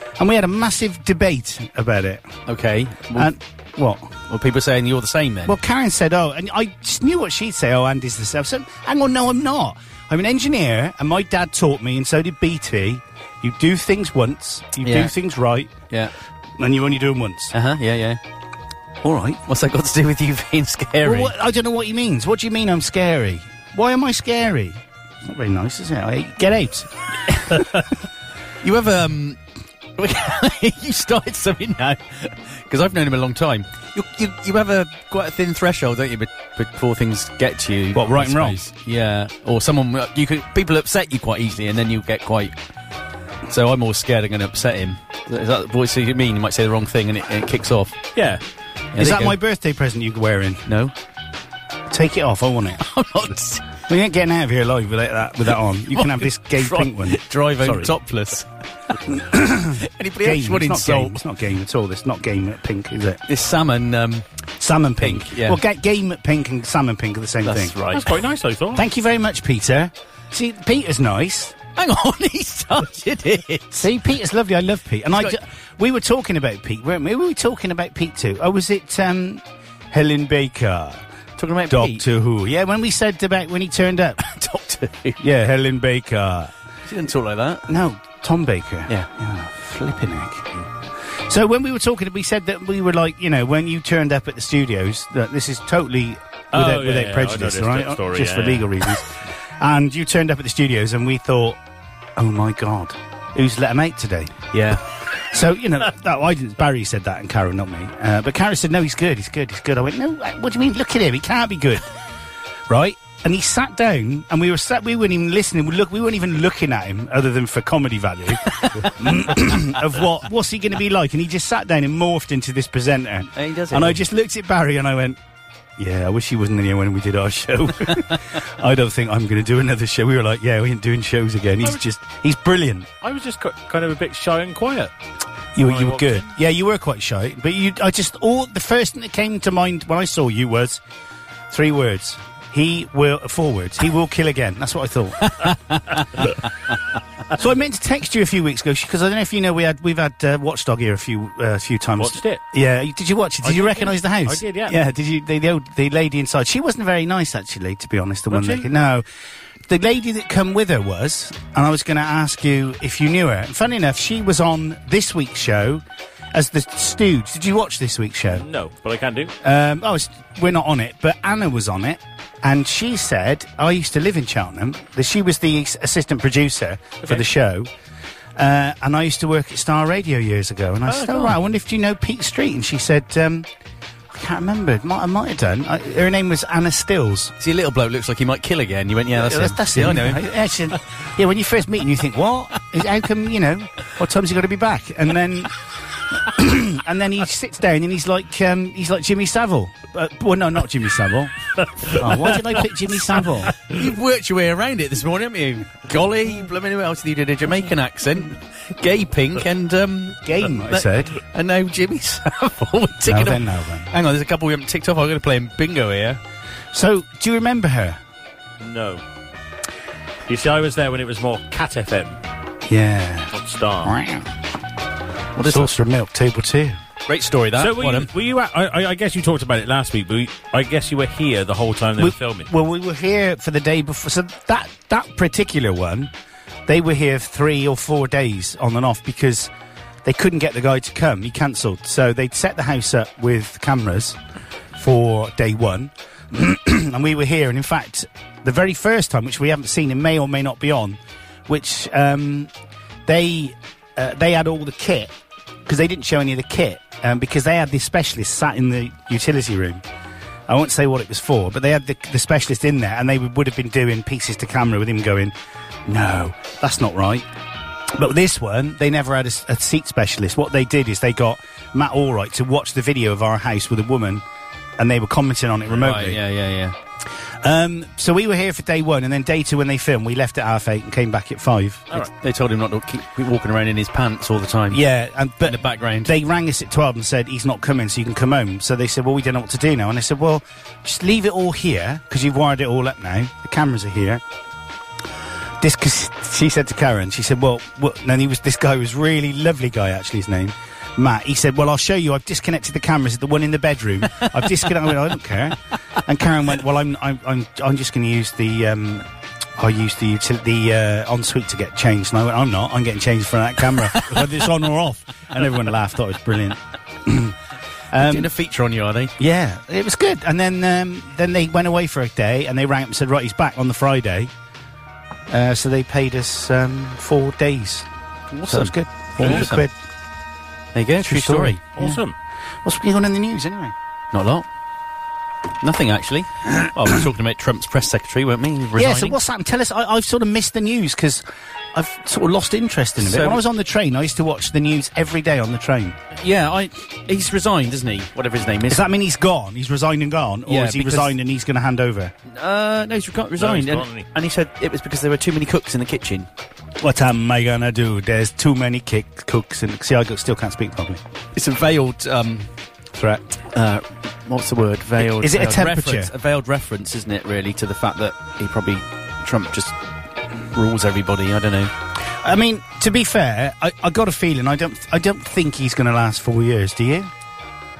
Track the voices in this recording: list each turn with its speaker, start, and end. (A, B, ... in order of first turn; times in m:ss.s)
0:00.2-0:02.3 A
0:02.5-0:03.3 B
0:03.1-0:04.1 A
0:04.3-0:05.5 B
0:05.4-0:15.7 A
0:14.8-0:15.1 B
0:16.6-0:17.5 A
0:17.5-0:18.2 B
0:19.0-0:21.3 B
0:21.0-0:26.9 A
0:28.6-0:29.4 B
0:30.0-0:42.5 B
0:37.9-0:38.6 A
0:43.5-0:48.0 B
0:48.2-0:48.4 C
0:48.9-0:49.4 B
0:49.0-0:50.7 A
0:50.6-0:50.9 B
0:51.9-0:52.9 A
0:52.8-0:53.7 B
0:53.9-0:57.2 A
0:55.9-1:01.2 B
0:59.0-1:03.2 A
1:03.3-1:04.2 B
1:04.6-1:07.7 A
1:05.0-1:05.6 B
1:07.4-1:08.1 B
1:07.9-1:08.8 C
1:08.7-1:11.6 A
1:11.8-1:13.9 B
1:13.7-1:21.0 A
1:21.4-1:22.0 B
1:21.7-1:24.2 A
1:24.2-1:25.2 B
1:25.2-1:26.5 A
1:26.8-1:27.7 B
1:27.7-1:30.6 A
1:31.2-1:41.6 A
1:36.5-1:38.9 C
1:42.2-1:44.4 A
1:44.5-1:44.8 B
1:45.3-1:51.8 A
1:52.7-2:05.2 A
2:03.3-2:04.0 B
2:05.8-2:12.9 A
2:13.0-2:14.9 C
2:15.6-2:20.8 A
2:15.6-2:16.3 C
2:21.5-2:25.6 A
2:25.4-2:26.2 B
2:27.3-2:39.0 A
2:32.0-2:32.4 C
2:33.4-2:34.8 C
2:38.3-2:38.7 C
2:39.7-2:48.4 A
2:48.3-2:49.3 C
2:49.4-2:57.7 A
2:58.4-3:03.5 A
3:00.9-3:01.3 B
3:04.1-3:07.3 A
3:07.4-3:10.3 B
3:09.1-3:15.5 A
3:16.1-3:23.6 A
3:23.6-3:36.2 B
3:30.2-3:31.2 A
3:33.0-3:33.9 A
3:36.7-3:38.0 A
3:38.6-3:39.0 C
3:40.3-3:42.2 C
3:42.7-3:43.3 A
3:43.3-3:44.0 C
3:43.8-3:44.3 A
3:45.4-3:45.7 B
3:45.4-3:46.8 A
3:47.1-3:48.1 B
3:47.6-3:52.5 C
3:52.0-3:56.1 A
3:56.7-3:59.5 A
4:00.0-4:04.2 A
4:04.7-4:12.5 A
4:13.0-4:15.1 A
4:15.6-4:19.8 A
4:20.5-4:25.3 A
4:25.8-4:27.2 A
4:27.9-4:34.2 A
4:34.8-4:36.2 A
4:35.7-4:36.7 B
4:37.4-4:42.0 A
4:42.0-4:44.8 B
4:44.7-4:54.2 A
4:45.4-4:46.1 B
4:55.6-5:17.4 A
5:13.9-5:14.2 B
5:17.9-5:18.3 A
5:18.0-5:19.1 B
5:19.2-5:24.3 A
5:25.3-5:27.9 A
5:28.3-5:29.6 B
5:28.5-5:29.7 A
5:30.7-5:31.6 B
5:31.0-5:32.0 A
5:31.8-5:32.1 C
5:32.6-5:33.7 A
5:34.1-5:34.4 B
5:35.6-5:39.2 B
5:38.8-5:46.0 A
5:43.0-5:43.4 B
5:46.2-5:48.8 B
5:48.7-5:52.1 A
5:50.5-5:51.1 B
5:52.3-5:56.3 B
5:53.4-5:54.1 C
5:56.8-6:01.0 A
6:01.3-6:02.5 B
6:02.9-6:03.2 A
6:03.5-6:09.8 B
6:05.0-6:06.1 A
6:10.5-6:11.7 B
6:12.1-6:17.1 A